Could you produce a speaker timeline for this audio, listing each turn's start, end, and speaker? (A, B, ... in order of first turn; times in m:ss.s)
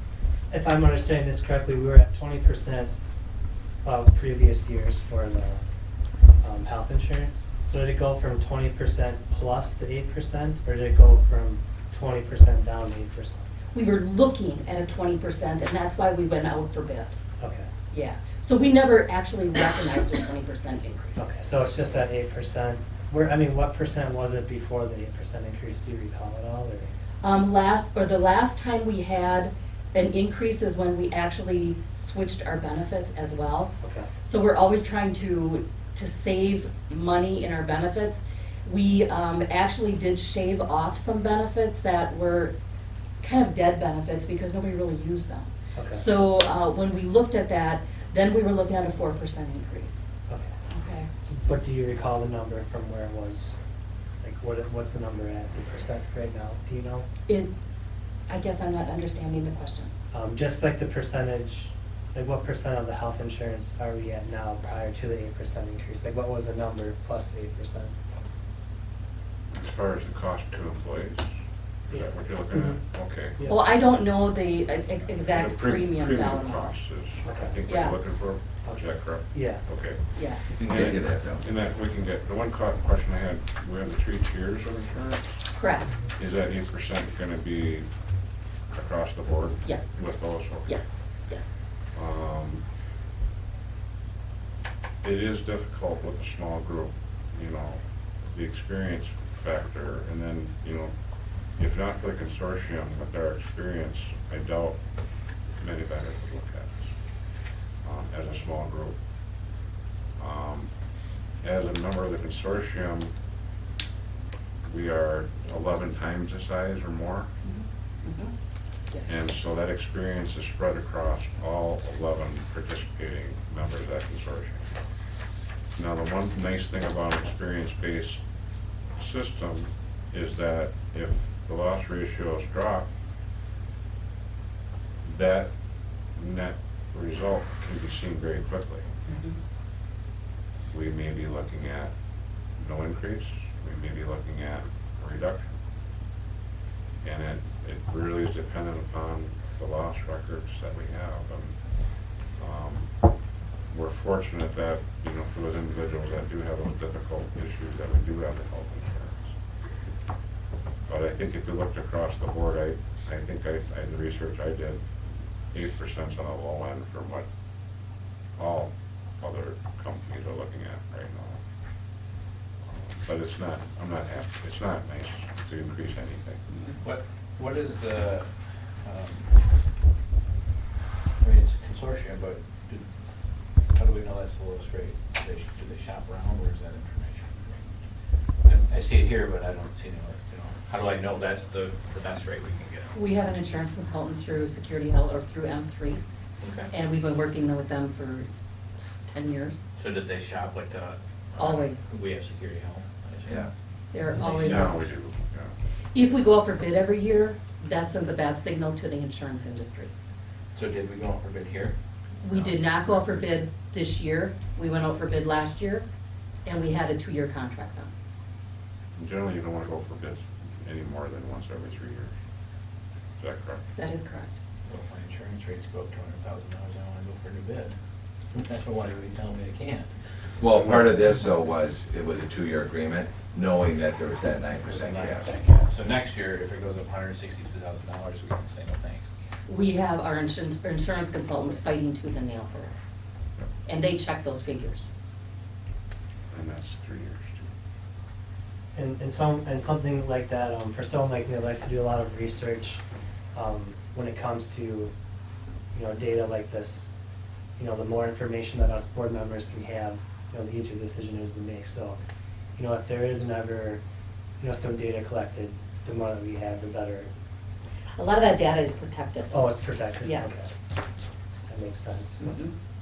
0:00.5-0:02.9 A
0:03.8-0:05.6 A
0:06.4-0:13.5 A
0:13.7-0:17.2 B
0:17.4-0:17.7 A
0:17.9-0:21.4 B
0:21.2-0:26.9 A
0:27.2-0:33.7 B
0:33.8-0:34.1 A
0:34.2-0:42.5 B
0:43.2-0:50.1 B
0:45.8-0:46.0 A
0:50.3-0:50.5 A
0:50.7-0:51.1 B
0:51.2-0:53.6 A
0:54.2-0:57.1 A
0:58.3-0:59.9 B
1:00.1-1:08.0 A
1:09.5-1:11.3 C
1:11.9-1:13.4 C
1:12.5-1:12.8 A
1:13.4-1:13.6 A
1:13.5-1:16.7 B
1:15.3-1:25.4 C
1:17.2-1:17.6 A
1:17.7-1:18.0 B
1:18.7-1:19.6 A
1:20.2-1:20.4 B
1:20.6-1:21.3 D
1:25.6-1:25.9 B
1:26.2-1:27.9 C
1:28.7-1:30.8 C
1:29.6-1:30.0 B
1:30.7-1:31.6 B
1:31.9-1:32.6 C
1:35.0-1:40.9 C
1:41.6-1:44.8 C
1:45.6-1:46.9 C
1:47.8-1:49.0 C
1:50.2-1:50.7 C
1:51.4-1:53.1 C
1:54.7-1:57.3 C
1:57.4-1:58.3 B
1:59.1-2:04.7 C
2:05.8-2:08.2 C
2:09.0-2:12.9 C
2:15.0-2:15.5 C
2:16.2-2:18.9 C
2:19.1-2:19.4 B
2:20.7-2:21.9 C
2:22.6-2:25.5 C
2:27.0-2:31.6 C
2:32.4-2:32.9 C
2:33.7-2:39.4 C
2:40.9-2:44.8 C
2:45.5-2:47.3 C
2:48.4-2:51.4 C
2:52.7-2:56.4 C
2:56.6-2:58.3 E
2:58.8-2:59.3 E
3:01.2-3:02.8 E
3:03.7-3:07.8 E
3:08.4-3:12.9 E
3:12.9-3:16.0 B
3:16.4-3:16.7 E
3:16.7-3:18.3 B
3:19.0-3:19.6 B
3:19.8-3:23.5 E
3:21.4-3:21.9 B
3:23.9-3:24.9 B
3:24.1-3:25.5 C
3:25.9-3:29.9 B
3:30.5-3:31.7 E
3:32.2-3:35.8 B
3:32.3-3:33.2 C
3:36.5-3:37.9 B
3:39.0-3:42.2 C
3:43.2-3:43.6 C
3:43.8-3:44.3 B
3:44.7-3:47.7 E
3:48.3-3:49.9 E
3:50.4-3:55.3 D
3:54.6-3:59.1 E
3:59.5-4:03.0 B
4:03.7-4:04.9 B
4:06.3-4:07.5 C
4:08.8-4:12.8 A
4:13.3-4:14.9 A
4:15.7-4:16.9 A
4:17.6-4:22.0 A
4:22.6-4:23.8 A
4:24.4-4:27.1 A
4:28.0-4:29.5 B
4:29.3-4:30.5 A
4:30.0-4:30.4 B
4:31.5-4:32.4 A
4:32.2-4:32.5 B